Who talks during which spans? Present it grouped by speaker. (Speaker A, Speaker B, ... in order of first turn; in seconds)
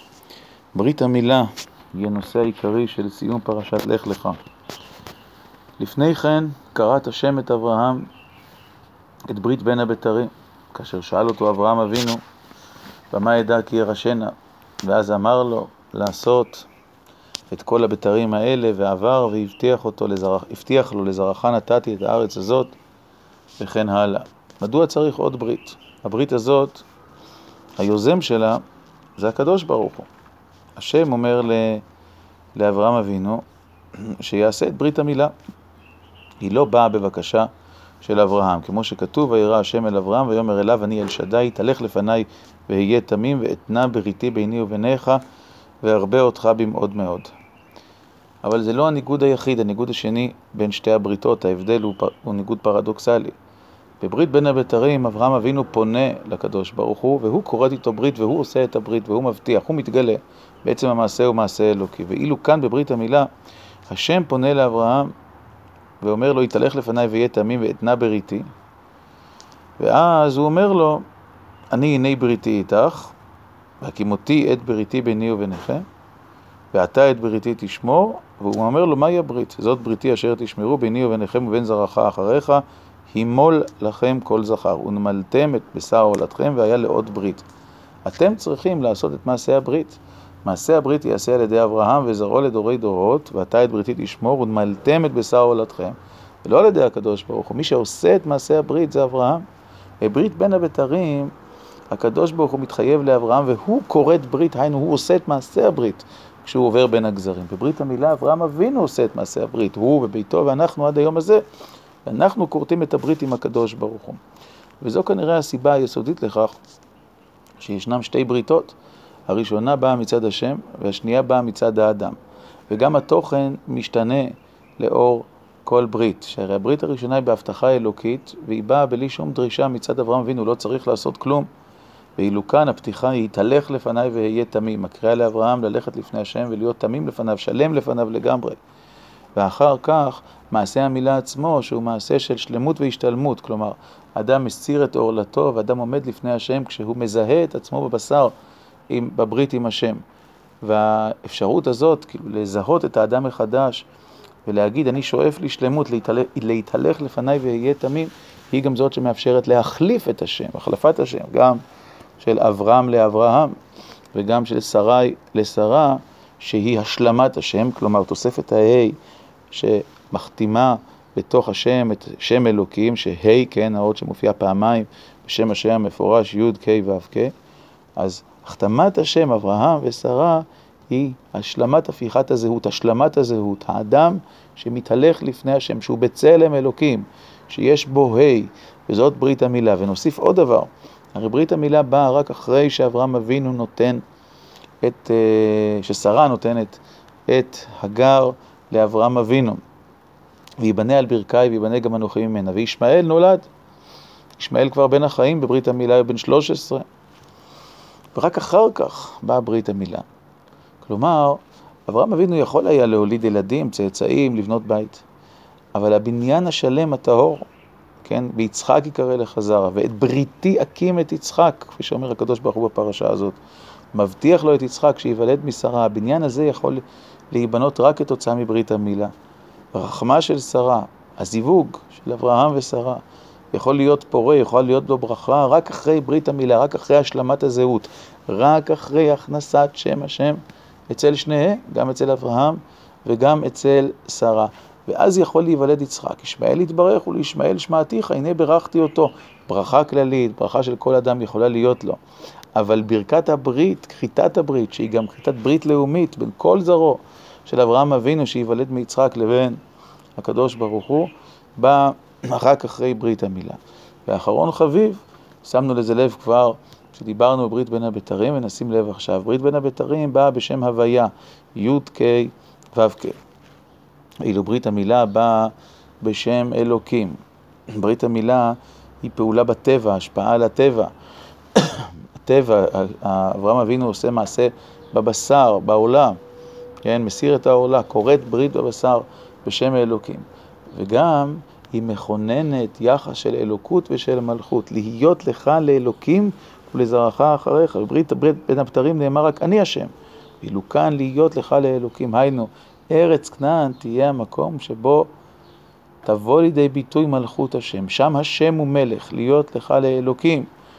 Speaker A: 0.7-4.4, 5.8-8.1, 9.3-12.2, 13.1-16.7, 17.5-22.8, 23.6-26.9, 27.8-28.6, 29.2-30.1, 30.8-31.8, 32.5-33.4, 34.0-35.3, 36.4-37.5, 38.0-45.2, 45.8-47.3, 48.4-53.3, 54.0-63.3, 63.9-65.1, 66.0-68.5, 69.8-71.0, 71.7-73.1, 73.8-75.9, 76.7-87.5, 88.0-99.5, 100.0-101.3, 101.9-111.4, 112.0-114.2, 114.8-116.5, 117.6-118.8, 119.3-122.2, 122.7-131.5, 132.2-138.6, 139.3-148.3, 148.9-150.0, 150.6-153.8, 154.4-161.6, 162.2-163.6, 164.1-169.0, 169.5-177.3, 177.9-194.0, 194.8-199.6, 200.6-203.4, 204.4-206.8, 208.1-210.0, 210.8-215.0, 215.7-217.5, 218.0-223.4, 223.9-229.1, 229.7-252.0, 252.5-259.6, 260.2-273.2, 274.2-277.2, 277.7-280.9, 281.5-286.2, 286.8-305.1, 306.0-310.5